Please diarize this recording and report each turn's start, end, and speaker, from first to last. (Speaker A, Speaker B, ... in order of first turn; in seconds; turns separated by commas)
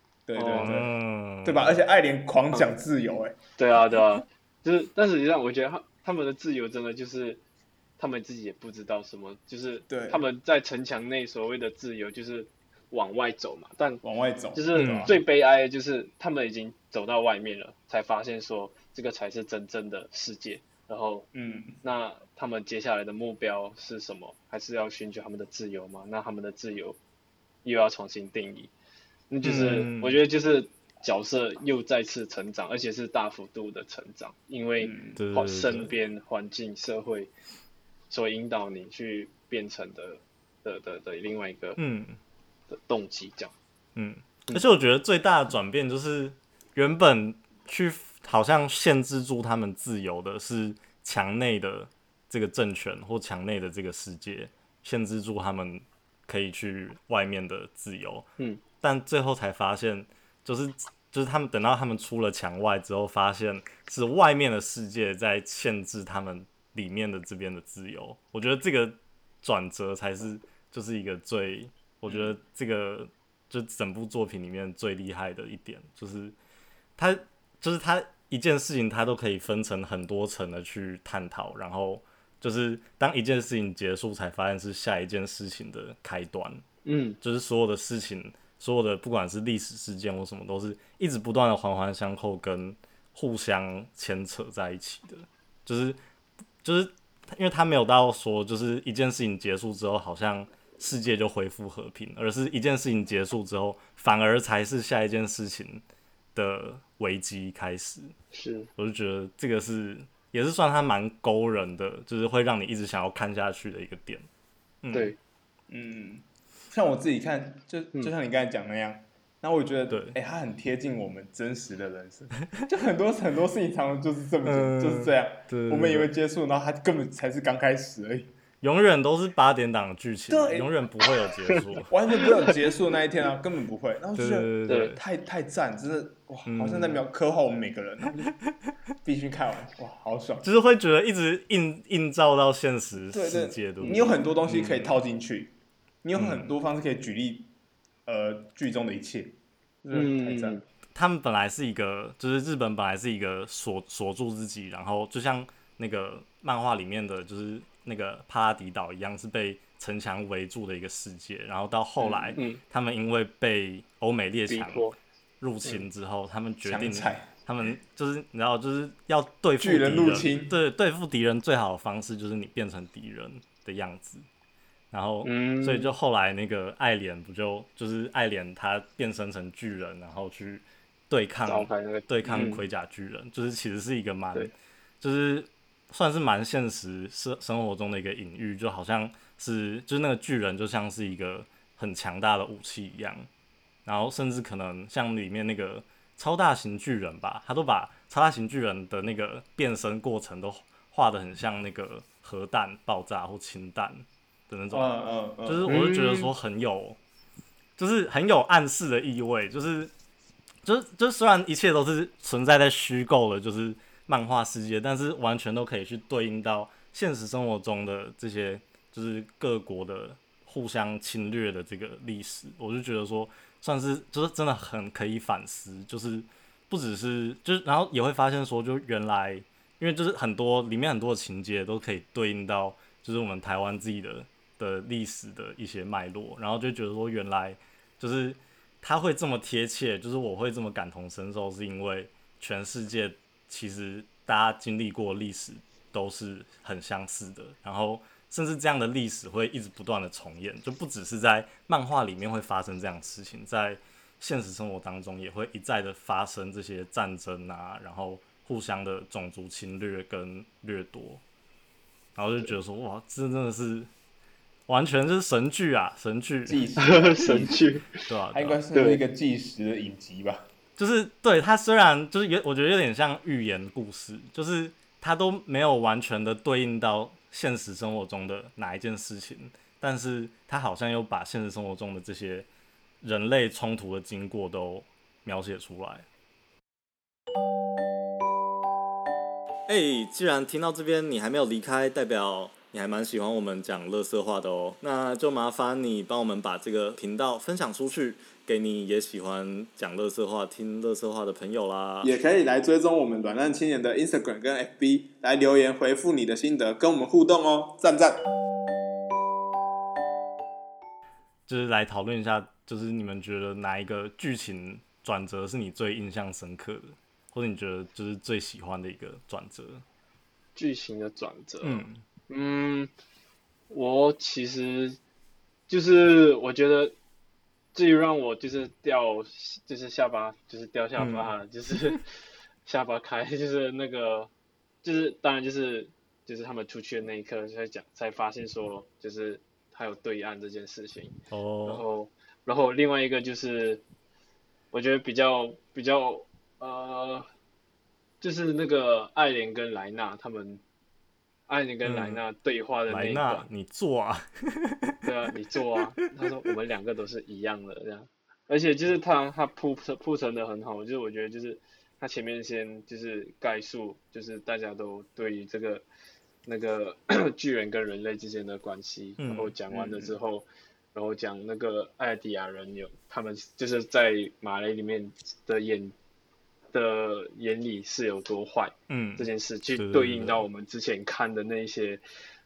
Speaker A: 0.3-3.4, Speaker B: 0.3-0.8, Speaker C: 0.5-1.8, Speaker B: 3.6-7.4, Speaker B: 8.0-14.0, Speaker A: 9.9-10.2, Speaker A: 14.0-15.2, Speaker B: 14.5-21.3, Speaker C: 14.7-15.2, Speaker A: 21.3-21.8, Speaker B: 21.8-27.0, Speaker B: 27.6-28.7, Speaker B: 29.3-37.3, Speaker C: 29.4-30.2, Speaker A: 34.8-35.2, Speaker C: 35.1-35.9, Speaker B: 38.1-41.8, Speaker C: 41.8-42.2, Speaker B: 42.7-43.5, Speaker C: 44.0-58.3, Speaker C: 58.8-76.3, Speaker C: 77.0-86.6, Speaker B: 86.8-87.2, Speaker C: 87.2-96.0, Speaker C: 96.6-105.8, Speaker C: 106.3-108.1, Speaker B: 108.3-108.7, Speaker C: 108.8-114.3, Speaker C: 114.8-115.1, Speaker A: 115.7-128.3, Speaker C: 119.9-120.2, Speaker C: 124.5-126.1, Speaker C: 128.6-131.9, Speaker A: 130.3-130.8, Speaker A: 131.8-138.3, Speaker C: 134.2-135.0, Speaker B: 134.7-135.0, Speaker C: 136.5-137.0, Speaker A: 139.1-140.5, Speaker C: 140.4-145.0, Speaker A: 143.1-145.5, Speaker B: 143.8-144.1, Speaker A: 146.0-147.5, Speaker C: 146.2-146.5, Speaker A: 148.1-150.6, Speaker B: 149.9-150.6, Speaker C: 150.9-174.2, Speaker B: 162.0-162.6, Speaker B: 164.5-165.0, Speaker A: 166.6-167.3, Speaker A: 169.6-170.6, Speaker C: 174.9-193.3, Speaker B: 175.2-175.9, Speaker B: 181.4-182.6, Speaker C: 193.9-204.9, Speaker A: 204.7-206.3, Speaker C: 205.5-207.0, Speaker C: 207.8-209.9, Speaker C: 210.7-261.2, Speaker C: 262.2-263.9, Speaker C: 264.7-266.7, Speaker A: 266.5-267.6, Speaker B: 266.8-267.9, Speaker C: 268.1-268.6, Speaker A: 268.3-270.5, Speaker B: 268.7-269.0, Speaker C: 270.8-282.5, Speaker C: 283.0-286.1, Speaker C: 289.7-302.2, Speaker A: 302.0-308.2, Speaker C: 311.5-319.8, Speaker B: 320.6-322.9, Speaker C: 321.6-322.0, Speaker B: 323.7-325.0, Speaker B: 325.7-326.9, Speaker B: 327.7-332.0, Speaker C: 331.0-331.3, Speaker B: 332.7-334.3, Speaker B: 334.8-343.8, Speaker C: 341.3-341.9, Speaker B: 344.7-347.3, Speaker B: 348.2-350.6, Speaker B: 351.5-353.5, Speaker C: 351.8-352.2, Speaker C: 352.9-355.0, Speaker B: 355.0-365.8, Speaker B: 366.5-375.9, Speaker C: 369.2-369.6, Speaker B: 376.7-382.0, Speaker C: 378.9-380.4